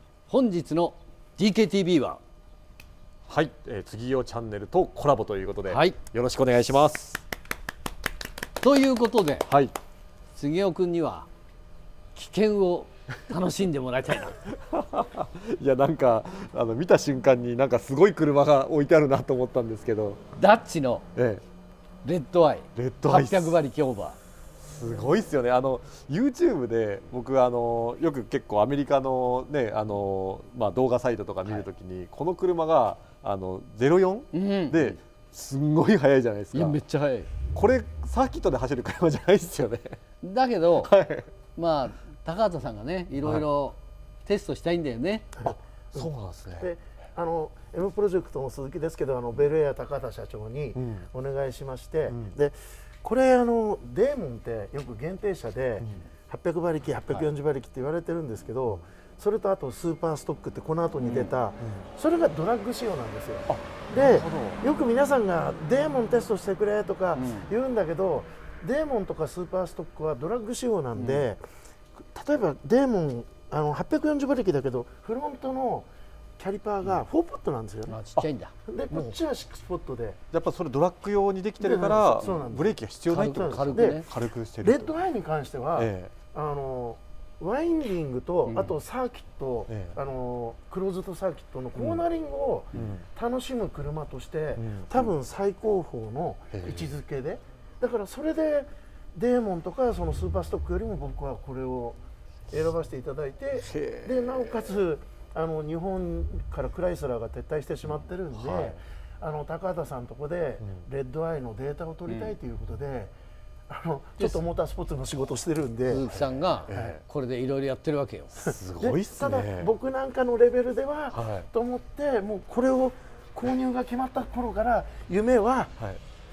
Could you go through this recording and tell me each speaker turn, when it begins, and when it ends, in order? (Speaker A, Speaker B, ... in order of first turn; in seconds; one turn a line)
Speaker A: 0.3-2.2
Speaker B: 3.3-7.2
Speaker A: 5.7-6.0
Speaker A: 8.6-9.5
Speaker B: 9.5-9.7
Speaker A: 10.3-11.3
Speaker A: 12.2-14.4
Speaker B: 14.7-20.2
Speaker A: 20.4-21.1
Speaker B: 21.2-21.4
Speaker A: 22.0-24.2
Speaker B: 22.8-23.6
Speaker B: 24.6-36.8
Speaker A: 34.3-35.0
Speaker A: 36.5-37.3
Speaker B: 37.5-40.0
Speaker A: 40.2-40.9
Speaker B: 40.8-41.3
Speaker A: 41.6-45.3
Speaker C: 45.4-71.4
Speaker B: 45.4-46.7
Speaker B: 50.8-51.1
Speaker B: 52.1-52.3
Speaker B: 61.0-61.8
Speaker B: 63.5-64.6
Speaker A: 67.2-67.5
Speaker A: 71.0-71.2
Speaker C: 72.1-78.0
Speaker A: 77.9-78.5
Speaker C: 78.7-80.2
Speaker B: 78.9-79.2
Speaker B: 80.3-85.0
Speaker C: 81.6-84.1
Speaker A: 83.1-84.0
Speaker C: 84.6-113.1
Speaker B: 85.8-86.1
Speaker A: 88.5-88.8
Speaker B: 89.7-90.0
Speaker B: 91.8-92.0
Speaker B: 92.7-93.0
Speaker B: 94.6-95.1
Speaker B: 96.5-97.0
Speaker B: 103.6-104.8
Speaker B: 108.3-108.8
Speaker A: 112.1-112.4
Speaker C: 113.7-116.1
Speaker A: 115.9-118.3
Speaker B: 116.1-117.0
Speaker C: 116.7-117.0
Speaker B: 118.4-119.7
Speaker C: 118.5-125.7
Speaker B: 121.1-121.5